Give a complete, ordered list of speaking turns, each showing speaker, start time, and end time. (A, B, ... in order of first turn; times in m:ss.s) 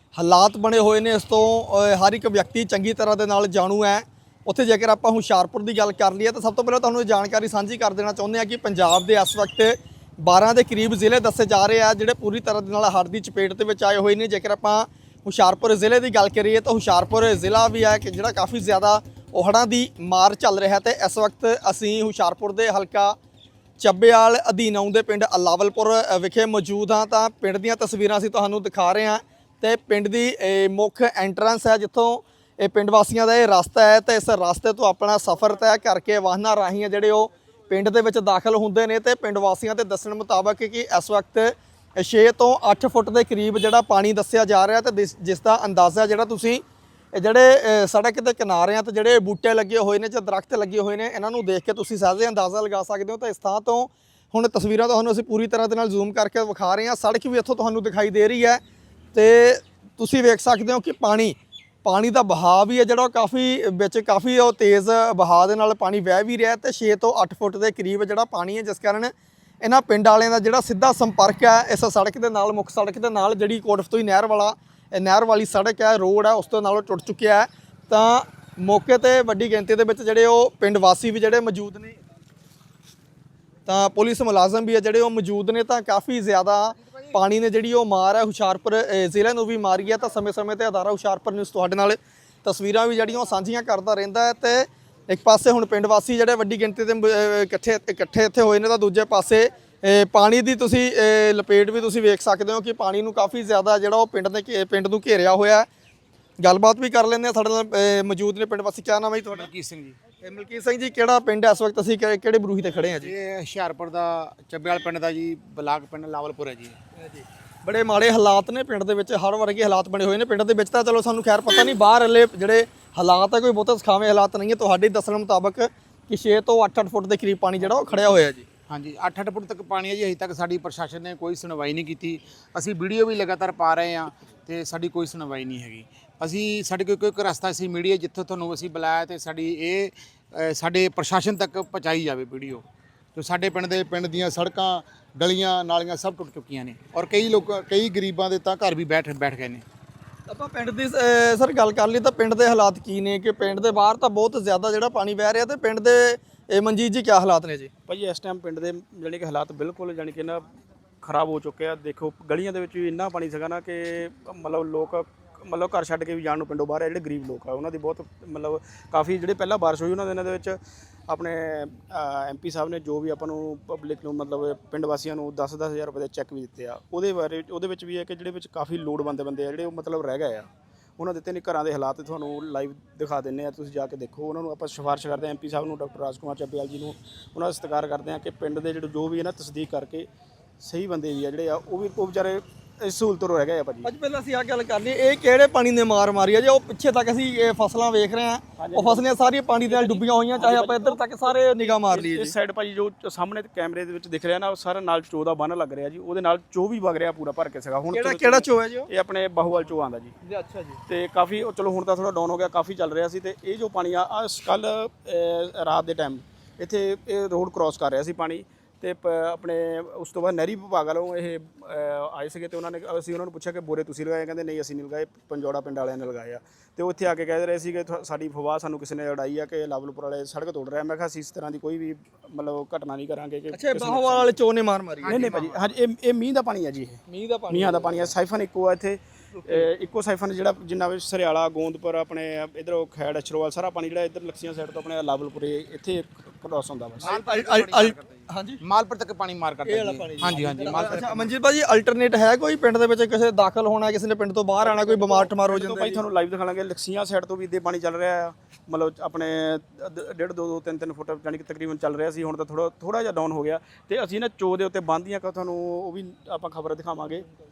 0:00.2-0:23.2 A
0:23.8-0:46.6 A
0:47.1-0:58.6 A
0:59.1-1:22.0 A
1:23.7-1:45.7 A
1:46.4-1:49.5 A
1:49.3-1:50.0 B
1:50.2-1:53.1 A
1:53.0-1:56.8 B
1:57.0-2:08.4 A
2:08.7-2:22.6 B
2:23.2-2:29.6 B
2:30.3-2:37.7 A
2:37.9-2:40.5 C
2:41.0-3:10.1 C
3:10.6-3:13.9 C
3:13.8-3:22.3 A
3:18.6-3:19.0 C
3:19.6-3:30.2 C
3:27.9-3:28.9 A
3:30.3-3:30.8 A
3:30.9-3:54.4 C
3:53.5-3:55.3 A
3:55.0-3:55.6 B
3:55.1-4:07.2 C
3:57.1-3:58.1 A
3:59.4-3:59.7 A
4:07.0-4:11.3 B
4:07.2-4:08.6 A
4:09.7-4:16.0 A
4:10.6-4:11.0 C
4:14.6-4:27.3 C